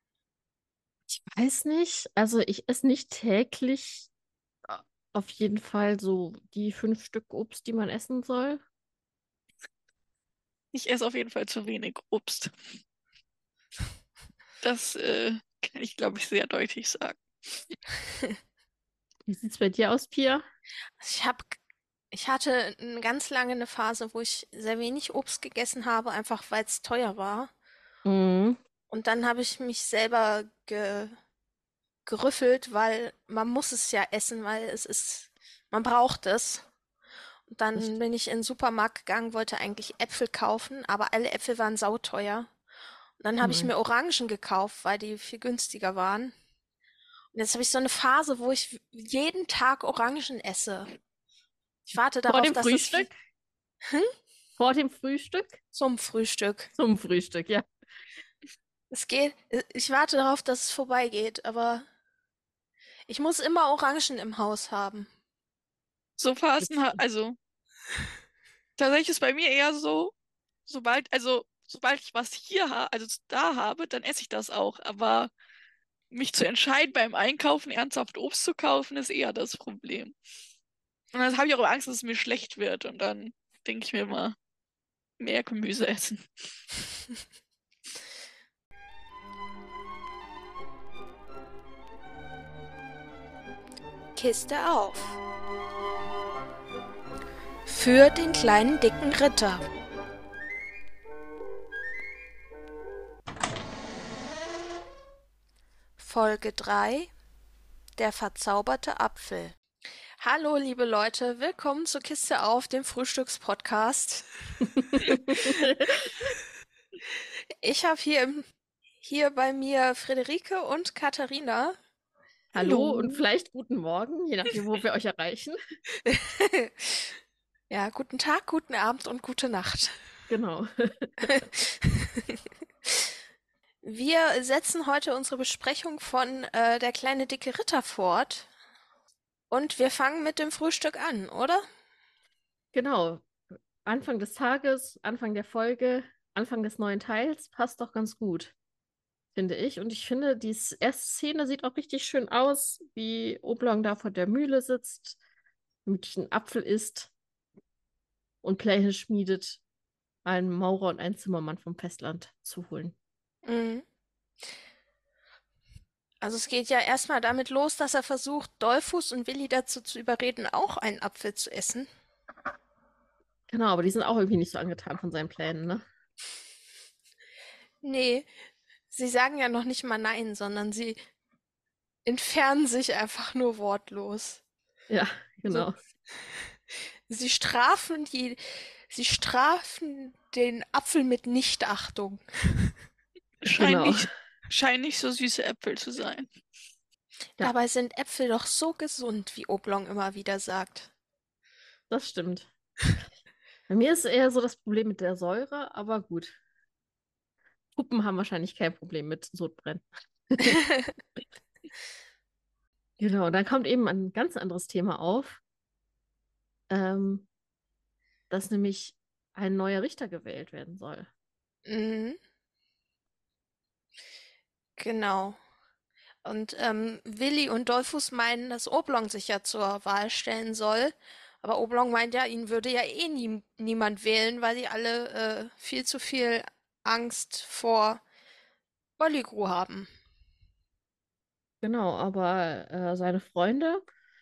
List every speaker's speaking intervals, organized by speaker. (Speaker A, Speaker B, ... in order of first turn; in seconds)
Speaker A: 1.1-4.1, 4.7-8.6, 19.3-20.4, 28.1-28.6, 43.4-43.7, 52.3-53.1, 54.6-55.6, 56.8-57.7, 66.6-67.0, 114.6-116.1, 122.5-125.6, 130.3-131.4, 142.7-143.3, 143.8-148.5, 149.3-155.2, 155.8-157.1, 158.4-159.6, 160.2-163.0, 173.5-175.8, 184.9-185.8, 193.6-194.1, 201.9-202.5, 203.7-206.4, 207.8-210.6, 213.0-215.4, 216.7-217.3, 218.3-221.1, 241.6-243.8
Speaker B: 10.7-12.5, 14.6-17.2, 66.2-67.4, 68.8-70.1, 70.7-75.3, 76.1-80.2, 81.1-84.3, 85.2-86.2, 193.4-196.3
Speaker C: 21.0-21.6, 22.1-27.5, 28.9-31.2, 32.1-36.7, 37.5-42.5, 43.2-46.3, 47.3-50.9, 51.9-53.1, 55.7-56.7, 58.9-61.9, 63.1-65.1, 94.2-95.2, 97.7-99.6, 106.0-107.1, 108.0-109.6, 110.2-114.3, 117.6-118.5, 119.0-121.8, 122.6-122.9, 126.1-127.1, 127.7-129.9, 133.8-138.5, 139.5-141.6, 163.4-163.8, 166.2-171.9, 177.8-178.3, 178.9-181.0, 182.1-184.4, 187.1-192.7, 197.4-200.9, 221.7-222.2, 224.8-225.4, 226.2-238.0, 239.0-239.9